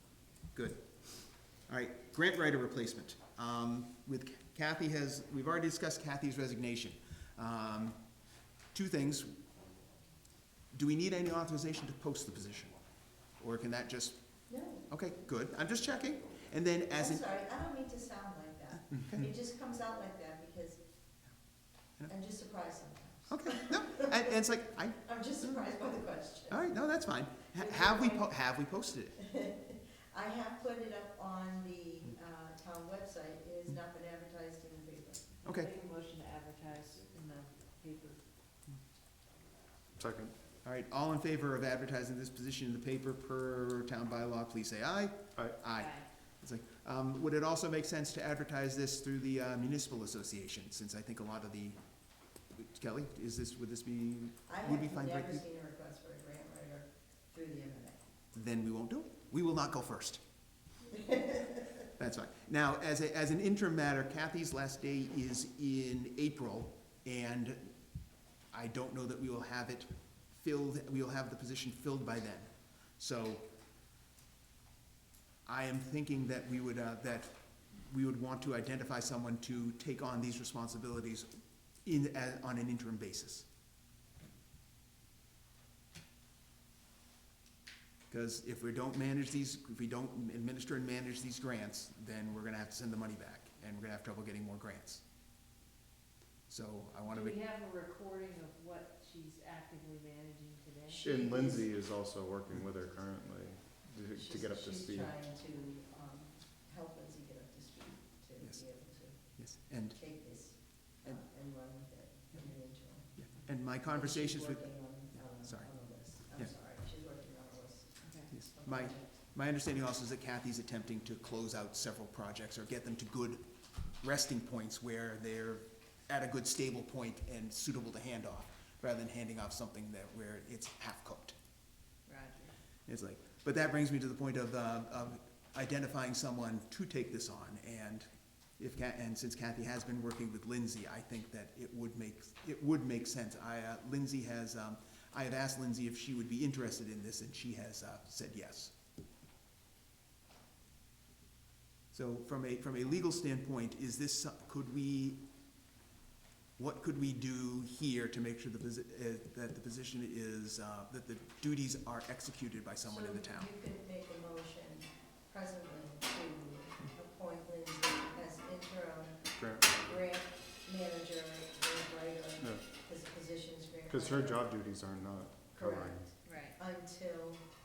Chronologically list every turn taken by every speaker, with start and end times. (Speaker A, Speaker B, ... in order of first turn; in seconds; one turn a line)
Speaker A: 0.5-8.0
Speaker A: 8.7-9.4
Speaker A: 10.7-12.8
Speaker A: 13.4-14.2
Speaker B: 14.5-14.9
Speaker A: 14.9-17.3
Speaker B: 16.9-20.8
Speaker A: 19.0-19.3
Speaker B: 22.1-24.4
Speaker A: 23.3-25.7
Speaker B: 25.0-26.7
Speaker A: 26.5-29.2
Speaker B: 27.5-28.3
Speaker B: 29.2-35.3
Speaker A: 35.4-35.7
Speaker C: 35.5-38.2
Speaker D: 40.0-40.4
Speaker A: 40.6-51.8
Speaker D: 45.4-45.6
Speaker C: 45.8-46.1
Speaker A: 52.5-55.5
Speaker B: 54.5-58.1
Speaker A: 58.3-60.2
Speaker B: 61.1-61.5
Speaker A: 62.0-67.7
Speaker A: 68.5-73.5
Speaker A: 75.5-81.3
Speaker A: 81.8-83.5
Speaker A: 88.1-95.0
Speaker A: 96.5-97.4
Speaker C: 97.1-101.1
Speaker B: 100.9-101.7
Speaker D: 101.0-105.2
Speaker B: 104.2-109.2
Speaker A: 108.4-108.7
Speaker A: 109.3-110.0
Speaker B: 110.0-113.1
Speaker A: 113.1-115.8
Speaker B: 113.9-118.0
Speaker C: 118.0-118.3
Speaker A: 118.3-123.5
Speaker B: 118.5-119.2
Speaker A: 124.0-131.4
Speaker C: 132.1-132.6
Speaker A: 132.9-138.1
Speaker A: 138.6-148.7
Speaker A: 151.9-155.2
Speaker A: 156.6-163.5
Speaker B: 162.9-174.5
Speaker D: 169.3-170.0
Speaker D: 173.9-176.1
Speaker B: 175.5-177.4
Speaker C: 176.2-176.6